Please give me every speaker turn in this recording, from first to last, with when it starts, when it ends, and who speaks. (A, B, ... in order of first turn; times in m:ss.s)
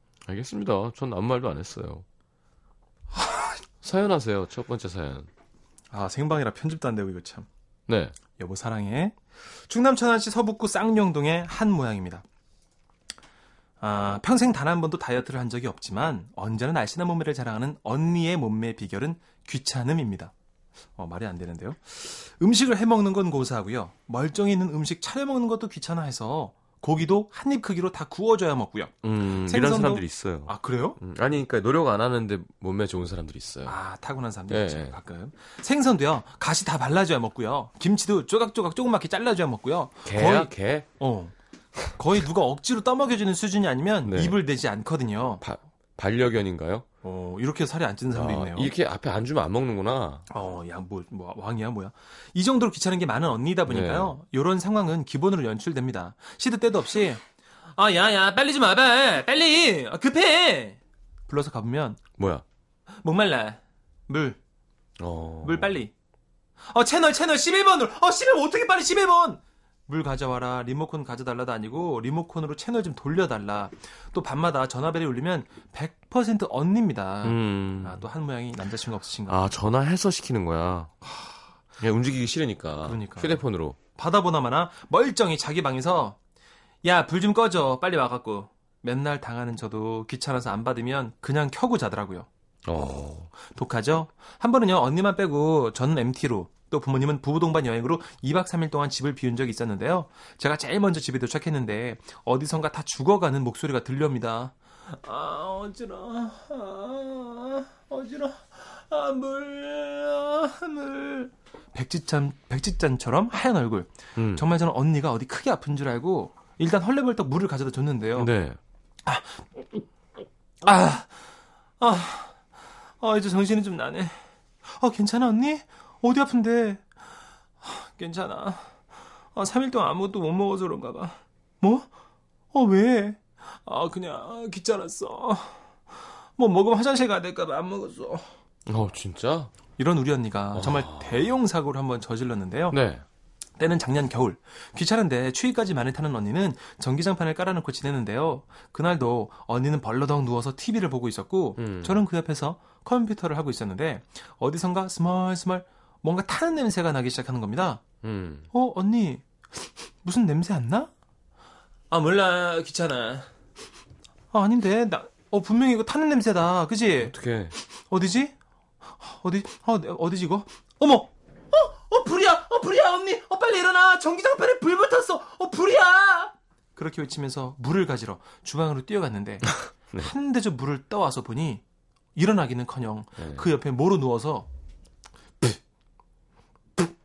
0:00.3-0:02.0 A
0:03.1-0:03.6 B
0:03.8-0:05.3 A
0:05.9-0:07.5 B
0:07.9-0:08.2 A
0:08.4-0:09.2 B
0:09.7-0:12.2 B
0:13.8-0:20.3 B
0:21.0-0:31.0 B
0:29.0-0:33.8 A
0:33.6-0:41.3 B
0:34.5-0:35.0 A
0:40.0-0:40.9 A
0:42.0-0:45.4 B
0:44.0-0:44.4 A
0:45.4-0:46.9 A
0:47.0-0:48.7 B
0:48.1-0:50.3 A
0:50.3-0:57.2 B
0:53.7-0:54.2 A
0:57.8-1:02.0 B
1:02.2-1:02.4 A
1:03.0-1:04.4 B
1:05.0-1:05.8 A
1:05.4-1:05.9 B
1:06.6-1:19.4 B
1:17.2-1:18.1 A
1:19.3-1:20.9 A
1:21.0-1:21.4 B
1:21.8-1:23.8 A
1:22.8-1:26.2 B
1:26.8-1:32.3 B
1:32.7-1:33.3 A
1:33.4-1:58.3 B
1:54.2-1:54.5 A
1:58.2-1:58.6 A
1:59.0-1:59.8 B
2:00.6-2:01.3 B
2:01.8-2:02.5 B
2:03.0-2:06.9 B
2:07.6-2:08.7 B
2:09.4-2:11.9 B
2:12.5-2:18.2 B
2:18.7-2:19.5 A
2:19.8-2:22.8 B
2:20.5-2:21.3 A
2:22.7-2:23.0 A
2:23.6-2:37.8 B
2:31.6-2:32.0 A
2:38.0-2:38.5 A
2:38.5-2:40.9 B
2:41.9-2:43.3 B
2:44.3-2:47.1 B
2:47.0-2:47.6 A
2:47.8-2:48.4 B
2:48.9-3:01.6 B
3:02.2-3:04.5 B
3:03.2-3:03.5 A